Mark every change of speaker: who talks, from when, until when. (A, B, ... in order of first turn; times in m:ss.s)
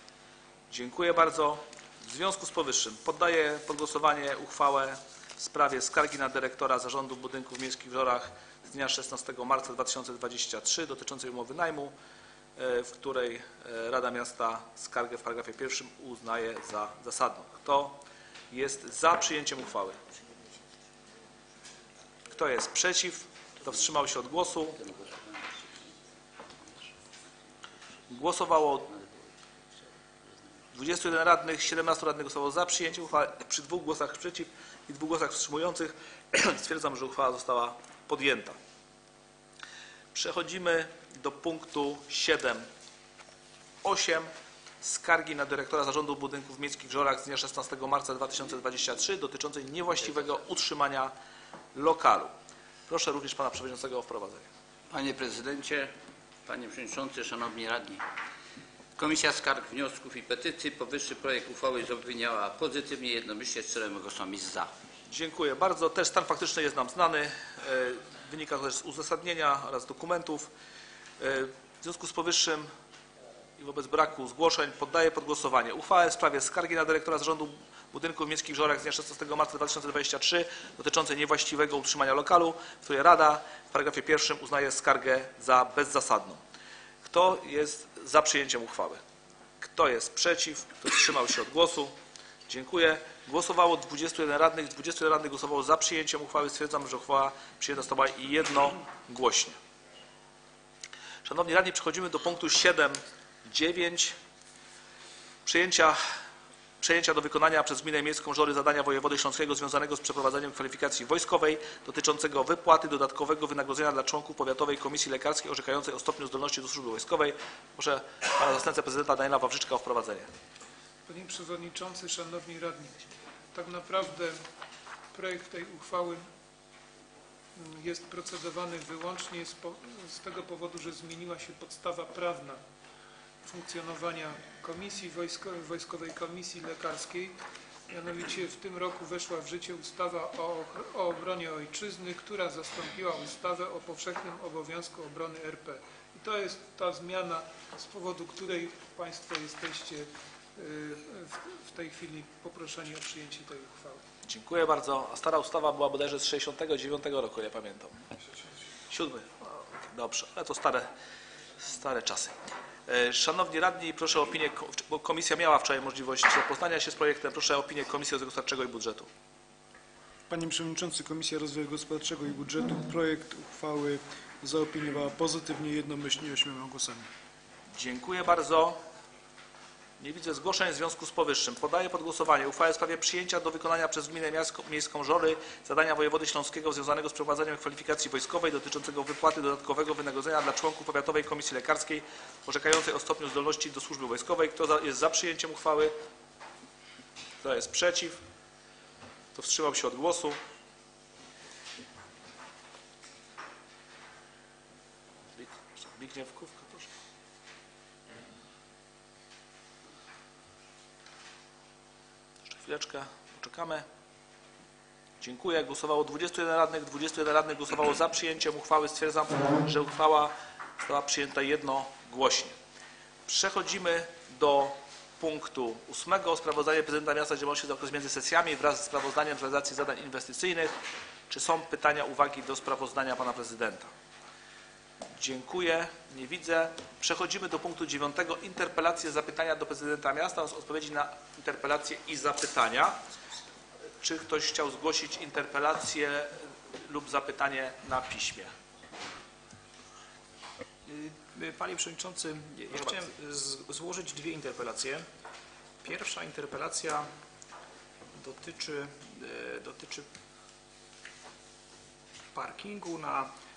0:00.7-0:11.9 A
0:12.6-0:18.0 A
0:18.5-0:20.0 A
0:22.3-0:24.8 A
0:24.8-0:25.3 B
0:28.1-0:28.9 A
0:30.7-0:38.6 A
0:40.1-0:42.6 A
0:43.8-0:44.3 A
0:44.8-0:51.1 A
0:51.7-0:52.3 A
0:52.9-0:54.5 A
0:54.9-0:55.9 B
0:56.4-0:58.0 B
0:59.0-1:04.7 B
1:05.1-1:10.5 A
1:11.2-1:12.7 A
1:13.6-1:26.4 A
1:27.0-1:29.0 A
1:29.6-1:31.9 A
1:32.5-1:39.6 A
1:41.2-1:44.2 A
1:45.4-1:46.0 A
1:46.8-2:00.3 A
2:01.1-2:04.4 C
2:05.1-2:06.2 C
2:07.6-2:12.6 C
2:13.4-2:17.4 C
2:17.9-2:34.0 C
2:34.2-2:38.0 A
2:38.9-2:40.9 A
2:41.6-2:42.3 A
2:42.9-2:49.1 A
2:50.3-2:57.0 D
2:57.7-2:58.8 A
3:00.0-3:15.9 A
3:17.4-3:18.2 A
3:19.3-3:20.4 A
3:25.4-3:26.9 A
3:32.5-3:33.8 A
3:35.2-3:42.5 A
3:43.3-3:50.7 A
3:51.3-3:53.9 A
3:55.2-4:03.0 A
4:04.0-4:08.5 A
4:10.9-4:15.0 E
4:12.7-4:13.0 A
4:15.8-4:17.1 E
4:18.2-4:20.1 E
4:22.3-4:23.3 E